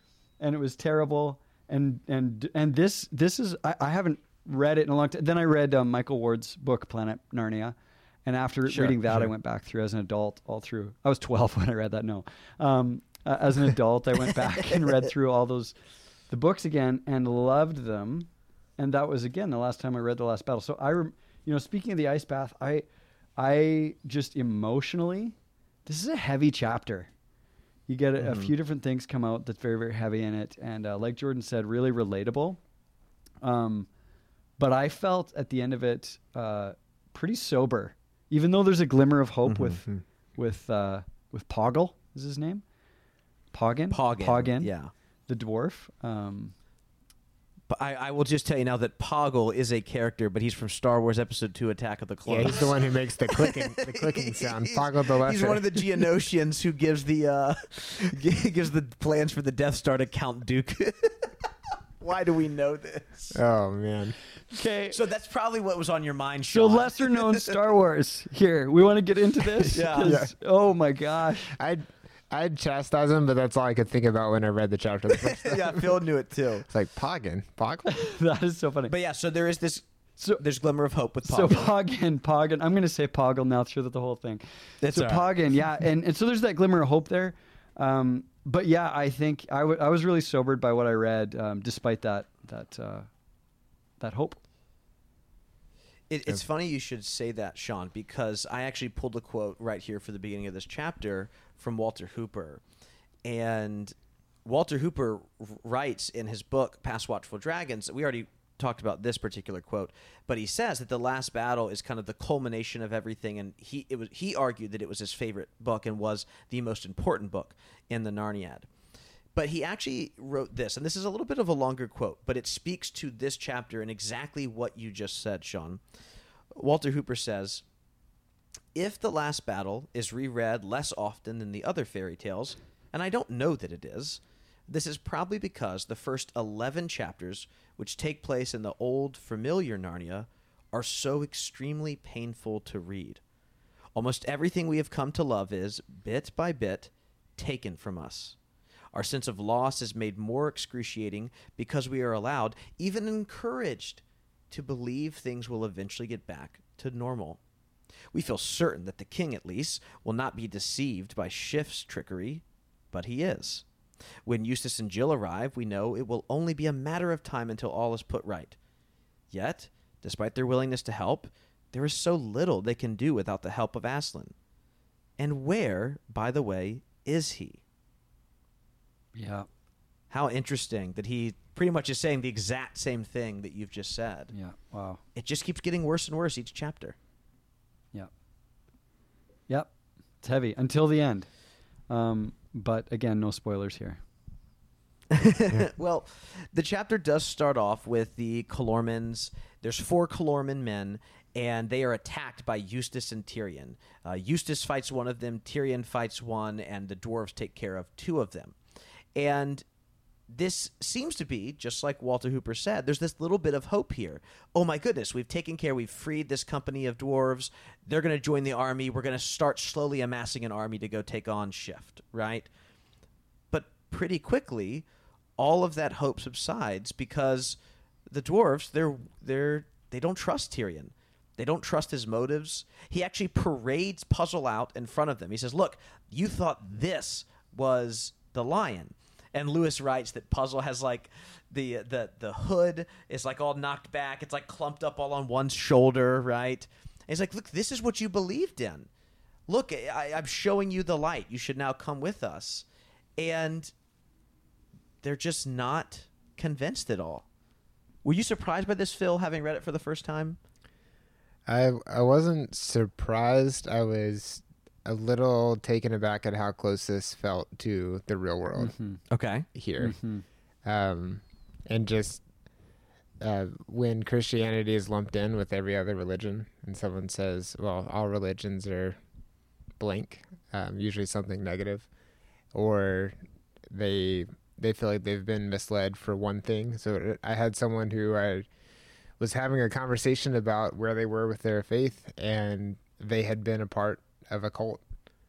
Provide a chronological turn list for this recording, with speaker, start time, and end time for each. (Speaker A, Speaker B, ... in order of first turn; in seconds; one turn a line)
Speaker A: 0.4-15.7
Speaker B: 8.7-9.2
Speaker A: 16.3-22.9
Speaker A: 23.4-27.1
Speaker A: 27.9-32.6
Speaker B: 28.2-28.5
Speaker A: 33.4-33.9
Speaker A: 34.6-42.6
Speaker A: 43.5-44.7
Speaker B: 43.9-44.9
Speaker A: 45.3-46.5
Speaker B: 47.7-61.3
Speaker C: 52.2-55.8
Speaker B: 62.0-63.4
Speaker C: 63.3-64.2
Speaker A: 64.5-65.0
Speaker B: 64.9-67.5
Speaker A: 66.5-71.5
Speaker B: 69.7-70.2
Speaker C: 70.0-70.3
Speaker C: 71.5-75.9
Speaker B: 75.2-76.7
Speaker C: 76.7-78.0
Speaker A: 77.8-78.9
Speaker B: 78.9-81.7
Speaker A: 81.2-93.1
Speaker B: 84.8-85.3
Speaker A: 94.0-94.4
Speaker B: 96.1-102.6
Speaker B: 103.2-118.7
Speaker B: 119.3-125.8
Speaker B: 126.5-127.6
Speaker B: 128.7-143.2
Speaker B: 143.9-148.3
Speaker B: 148.9-157.4
Speaker B: 158.1-163.6
Speaker B: 164.2-168.6
Speaker B: 169.3-174.3
Speaker B: 175.2-177.6
Speaker A: 179.1-179.5
Speaker B: 180.1-184.3
Speaker A: 184.3-185.0
Speaker B: 185.1-186.9
Speaker A: 189.5-191.3
Speaker A: 191.9-194.0
Speaker B: 195.1-208.6
Speaker B: 209.2-209.6
Speaker B: 210.3-222.5
Speaker B: 223.5-224.8
Speaker B: 225.4-227.6
Speaker B: 228.1-248.9
Speaker B: 249.5-252.6
Speaker B: 253.2-253.7
Speaker B: 255.0-257.2
Speaker B: 258.0-260.4
Speaker C: 261.5-268.7
Speaker A: 268.6-269.0
Speaker B: 269.1-269.5
Speaker C: 269.5-270.0
Speaker A: 269.8-270.2
Speaker C: 270.6-272.2
Speaker C: 273.2-279.0
Speaker C: 279.8-281.9
Speaker C: 282.5-283.1
Speaker C: 283.7-288.5
Speaker C: 289.2-294.8